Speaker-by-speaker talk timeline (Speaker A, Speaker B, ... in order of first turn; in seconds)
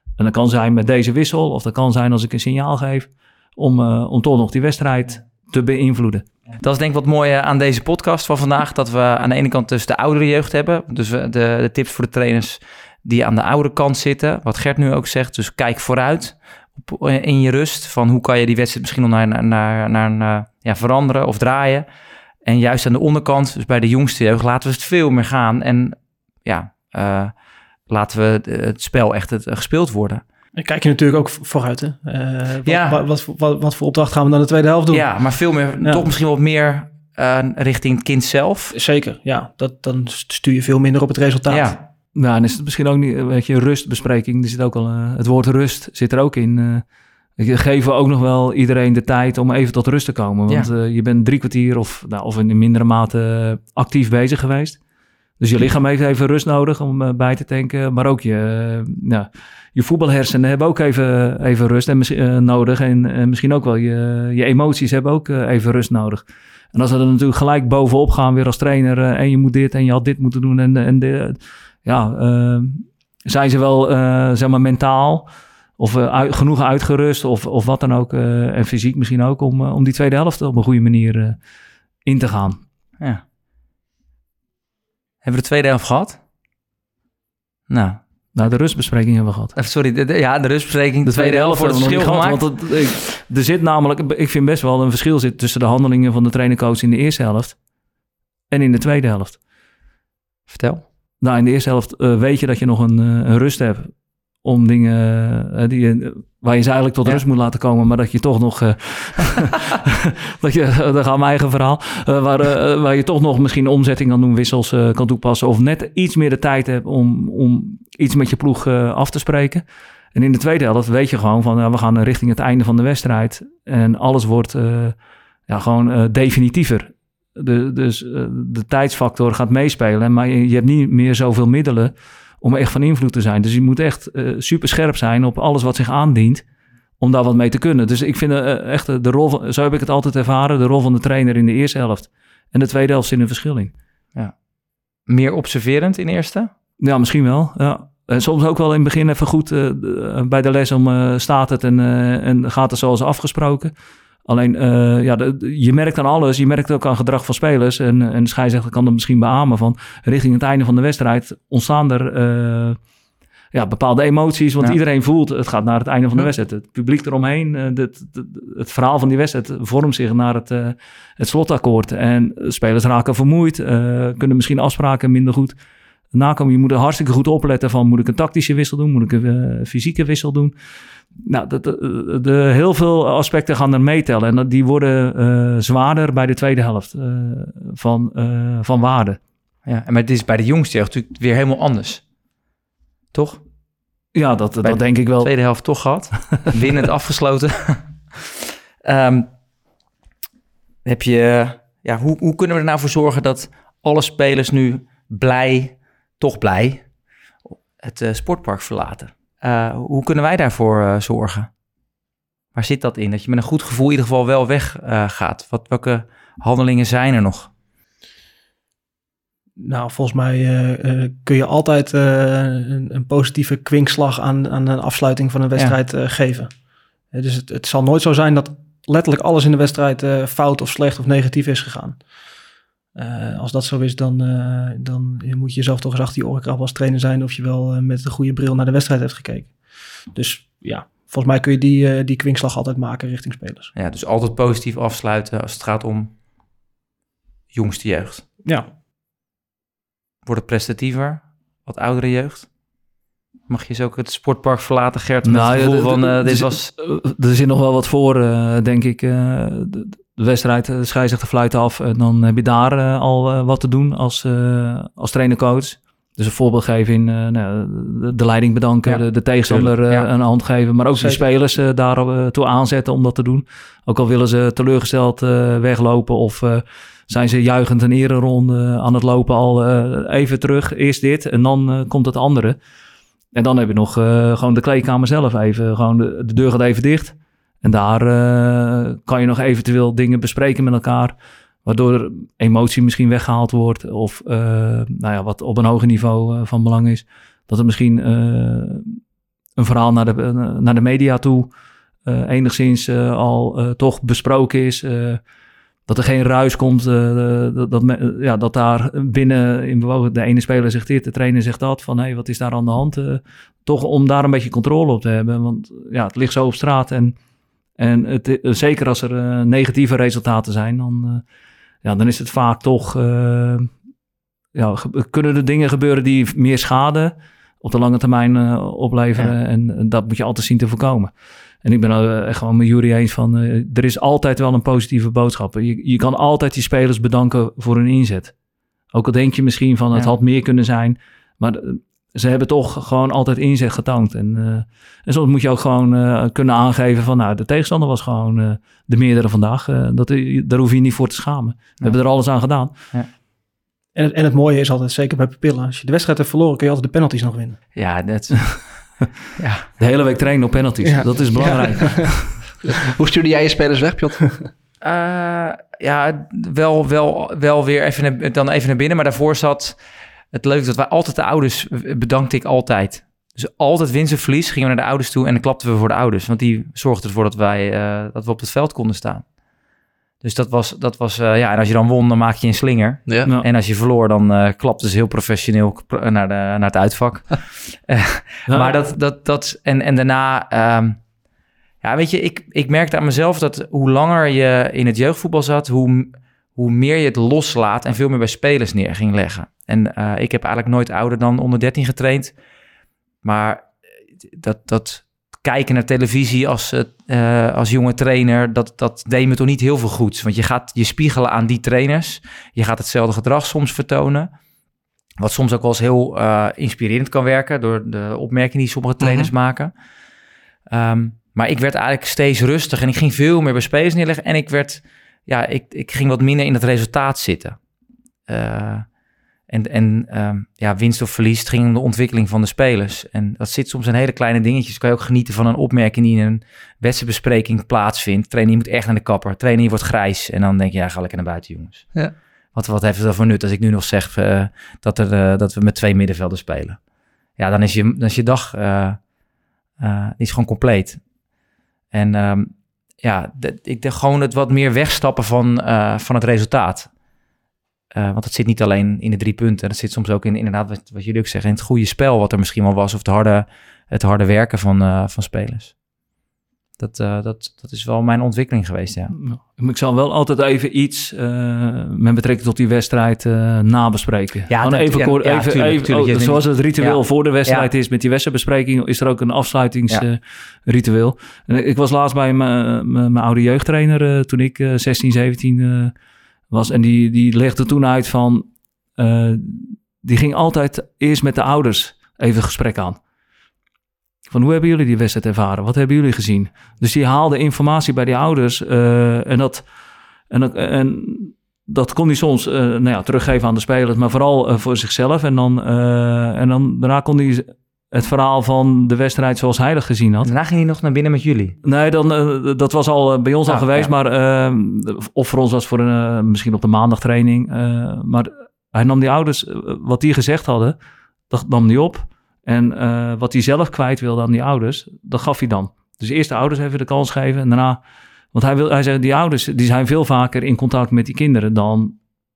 Speaker A: 0.2-6.2, 42.1-46.8, 47.4-54.8, 55.4-81.4, 82.0-82.6, 88.3-89.5, 91.0-97.6, 98.5-99.4, 101.2-125.0, 125.5-136.4, 137.0-143.7, 146.8-153.7, 154.2-162.8, 163.5-175.5, 176.1-180.5, 181.2-189.2, 194.1-195.3, 255.2-282.6, 283.3-299.0, 299.6-301.5, 302.1-305.2, 305.9-317.1, 317.8-321.2, 321.8-323.7, 324.5-338.3, 338.9-352.7, 359.8-362.4, 388.5-388.8, 469.1-485.9, 486.5-493.0, 494.3-499.6, 500.3-510.3, 511.6-520.8, 521.3-527.8, 528.3-532.0
Speaker B: 6.6-21.9, 22.4-27.3, 27.9-30.2, 32.6-33.0, 34.9-38.7, 41.5-41.8, 85.2-86.2, 87.7-88.0, 89.5-92.5, 100.5-100.8, 145.1-146.5, 189.7-192.0, 193.1-193.4, 194.6-199.3, 200.8-206.8, 207.5-211.5, 212.5-217.5, 243.8-246.1, 247.5-248.2, 250.2-252.5, 253.5-256.7, 268.8-270.1, 357.7-358.8, 359.4-359.7, 364.8-369.8, 370.3-379.2, 380.2-391.0, 391.8-402.3, 403.2-403.7, 404.2-414.3, 415.2-419.7, 420.7-427.6, 428.3-428.9, 429.5-441.9, 442.5-446.8, 447.4-449.0, 449.8-451.0, 451.9-456.9, 457.9-465.8, 466.8-469.1, 474.5-477.7, 510.2-511.6, 513.5-513.9
Speaker C: 30.6-35.1, 38.7-41.8, 219.6-226.5, 227.1-232.0, 232.9-239.6, 240.1-243.7, 353.9-357.6, 360.8-362.2
Speaker D: 362.6-364.4, 419.0-419.3